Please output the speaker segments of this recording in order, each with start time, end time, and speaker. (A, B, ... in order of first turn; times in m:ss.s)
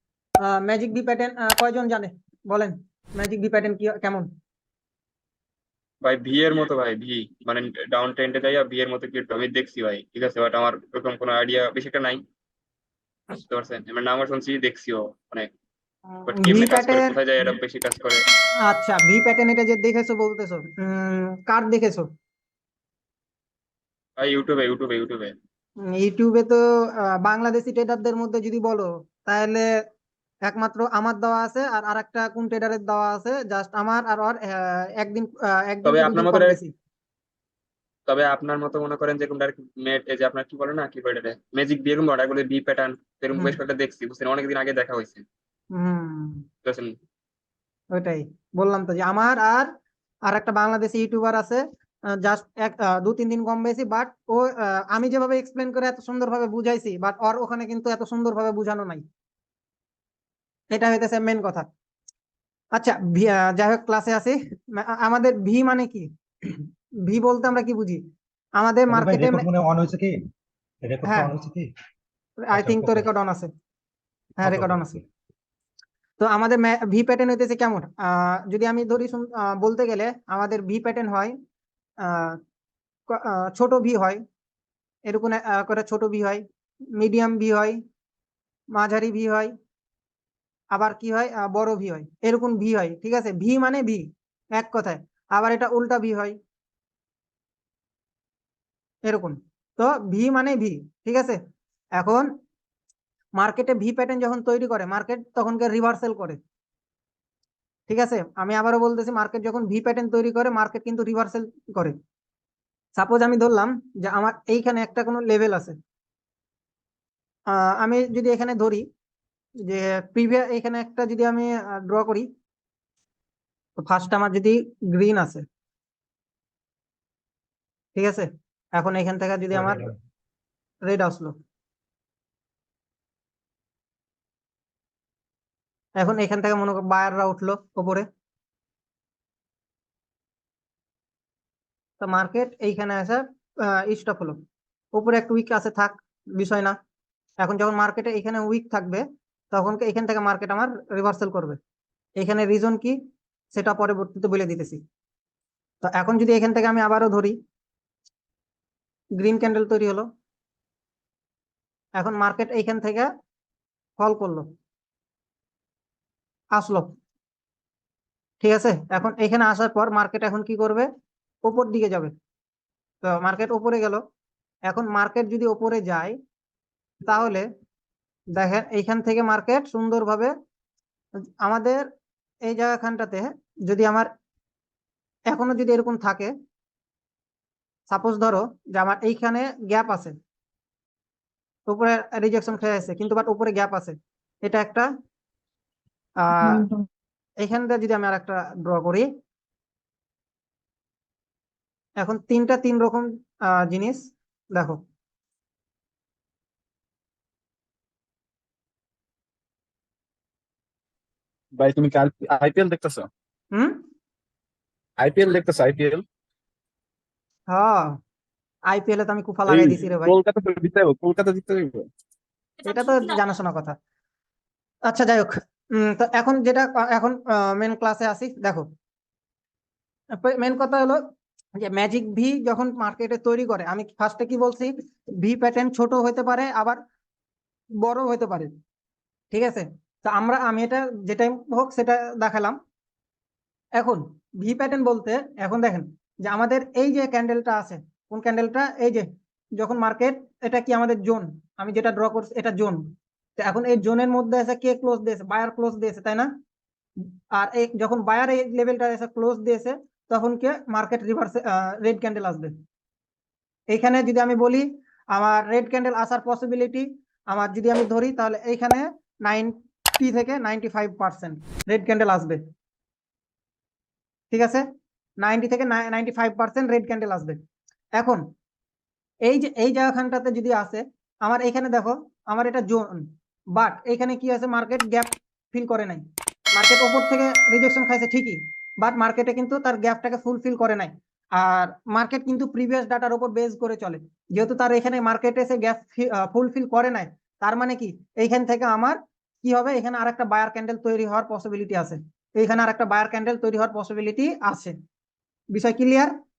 0:00.4-0:04.3 A
0:06.0-0:12.2 B
0:13.3-0:15.5 B
0:16.1-0:17.1 A
0:16.3-0:18.2 B
0:18.6-0:22.1 A
0:24.2-0:25.3 B
0:25.8-0:29.7 A
0:30.4-0:36.7 A
0:35.8-0:36.6 B
0:38.1-0:45.2 B
0:45.7-0:46.5 A
0:46.6-0:47.0 B
0:47.9-0:49.7 A
0:50.2-0:59.0 A
1:00.7-1:01.7 A
1:02.7-1:08.0 A
1:08.6-1:09.4 A
1:08.9-1:10.3 C
1:10.8-1:11.7 C
1:11.0-1:11.3 A
1:12.4-1:13.5 A
1:12.5-1:13.1 C
1:14.4-1:15.0 A
1:14.4-1:15.0 C
1:16.2-1:21.3 A
1:22.0-1:22.4 A
1:23.1-1:24.2 A
1:25.0-1:27.8 A
1:28.7-1:29.5 A
1:30.7-1:36.4 A
1:39.0-1:41.4 A
1:42.0-1:42.4 A
1:43.4-1:46.4 A
1:47.9-1:52.0 A
1:53.0-1:55.8 A
1:57.5-1:58.9 A
1:59.6-2:02.3 A
2:03.8-2:05.4 A
2:07.9-2:09.9 A
2:09.5-2:10.0 C
2:10.8-2:11.4 A
2:16.0-2:18.1 A
2:22.0-2:26.8 A
2:27.4-2:31.6 A
2:32.2-2:33.0 A
2:33.5-2:34.8 A
2:35.8-2:37.4 A
2:39.2-2:40.1 A
2:42.0-2:43.1 A
2:44.0-2:44.5 A
2:46.5-2:47.0 A
2:48.4-2:50.9 A
2:51.4-2:52.1 A
2:53.0-2:54.0 A
2:54.7-2:56.2 A
2:57.0-2:57.5 A
2:58.3-3:00.3 A
3:01.4-3:01.9 A
3:02.4-3:04.1 A
3:05.3-3:06.3 A
3:07.9-3:10.2 A
3:11.7-3:14.9 A
3:16.2-3:16.7 A
3:17.4-3:19.1 A
3:22.0-3:24.8 A
3:31.6-3:33.1 D
3:33.5-3:33.8 A
3:35.0-3:36.0 D
3:37.5-3:38.0 A
3:38.7-3:40.1 A
3:39.5-3:41.9 D
3:42.6-3:43.8 A
3:44.8-3:48.7 A
3:50.2-3:56.8 A
3:57.8-3:58.5 A
3:59.3-4:02.6 A
4:03.8-4:16.4 A
4:17.0-4:22.6 A
4:23.7-4:32.4 A
4:34.3-4:34.6 A
4:35.2-4:37.4 A
4:38.0-4:38.3 A
4:39.2-5:04.8 A
5:05.5-5:06.2 A